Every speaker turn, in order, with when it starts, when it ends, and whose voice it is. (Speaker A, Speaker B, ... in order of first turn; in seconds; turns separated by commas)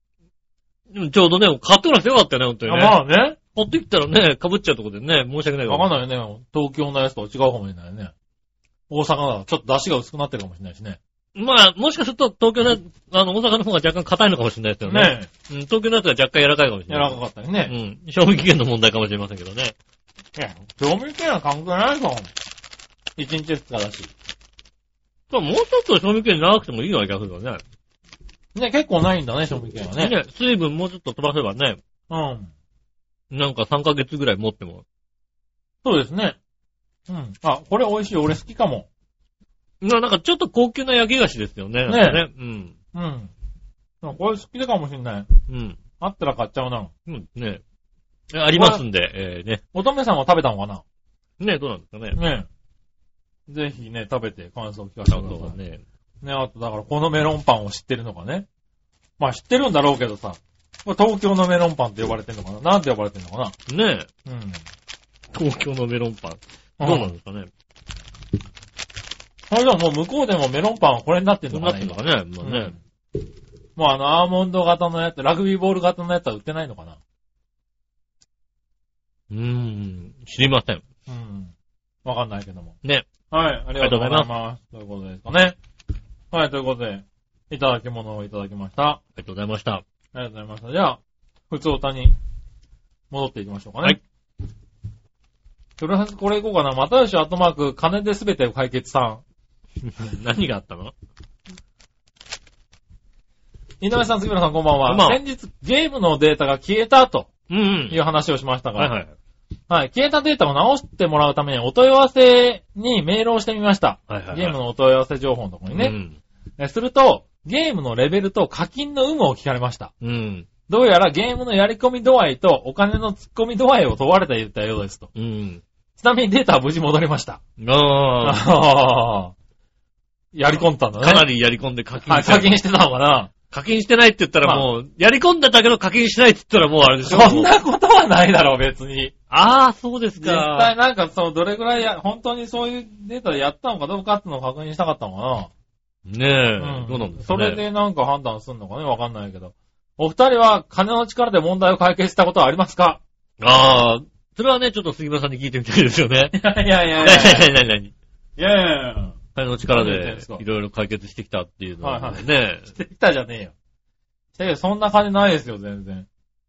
Speaker A: 0.9-3.0, Speaker B: 2.7-3.4, Speaker A: 3.5-5.9, Speaker B: 5.7-8.1, Speaker B: 8.9-11.0, Speaker A: 11.3-19.7, Speaker B: 14.8-15.3, Speaker B: 16.9-17.7, Speaker B: 20.3-22.3, Speaker B: 23.2-24.1, Speaker A: 25.3-27.6, Speaker B: 28.5-30.1, Speaker A: 30.0-31.8, Speaker B: 32.1-32.5, Speaker A: 33.3-34.8, Speaker B: 35.8-36.4, Speaker B: 37.1-38.9, Speaker A: 39.8-42.7, Speaker B: 41.9-42.2, Speaker B: 42.9-43.3, Speaker B: 44.0-45.3, Speaker A: 45.5-45.8, Speaker B: 46.0-46.9, Speaker A: 47.1-47.6, Speaker A: 48.3-49.6, Speaker B: 48.5-48.8, Speaker B: 49.7-50.8, Speaker A: 51.4-52.2, Speaker B: 52.1-52.5, Speaker B: 53.5-55.5, Speaker A: 55.1-55.8, Speaker B: 56.2-58.5, Speaker B: 59.2-63.5, Speaker A: 63.7-64.1, Speaker B: 64.2-64.6, Speaker A: 65.3-67.5, Speaker B: 66.8-67.1, Speaker B: 69.5-72.8, Speaker A: 71.5-72.8, Speaker B: 73.8-77.0, Speaker A: 79.3-80.8, Speaker B: 81.1-81.5, Speaker B: 82.0-82.7, Speaker B: 83.3-85.5, Speaker A: 83.8-84.3, Speaker B: 86.3-89.0, Speaker A: 89.2-89.8, Speaker B: 90.1-92.2, Speaker B: 93.1-94.0, Speaker B: 95.8-99.2, Speaker A: 99.8-100.9, Speaker B: 103.8-107.3, Speaker A: 104.9-105.2, Speaker A: 107.5-108.0, Speaker B: 107.9-108.9, Speaker A: 108.8-109.1, Speaker B: 109.7-115.9, Speaker A: 114.1-114.5, Speaker A: 115.7-116.2, Speaker B: 116.6-119.9, Speaker A: 120.0-120.5, Speaker B: 120.7-125.1, Speaker A: 125.1-125.6, Speaker B: 126.0-127.4, Speaker A: 127.6-128.4, Speaker B: 128.2-129.3, Speaker B: 130.3-131.3, Speaker A: 131.0-132.6, Speaker B: 132.1-133.3, Speaker A: 133.5-137.5, Speaker B: 137.0-139.1, Speaker A: 139.3-140.7, Speaker B: 140.2-145.5, Speaker A: 146.1-147.6, Speaker B: 146.6-153.0, Speaker A: 153.4-156.3, Speaker B: 156.3-157.5, Speaker A: 157.0-157.9, Speaker B: 158.4-159.2, Speaker A: 159.3-162.7, Speaker B: 159.7-160.4, Speaker B: 161.8-163.5, Speaker B: 164.3-166.1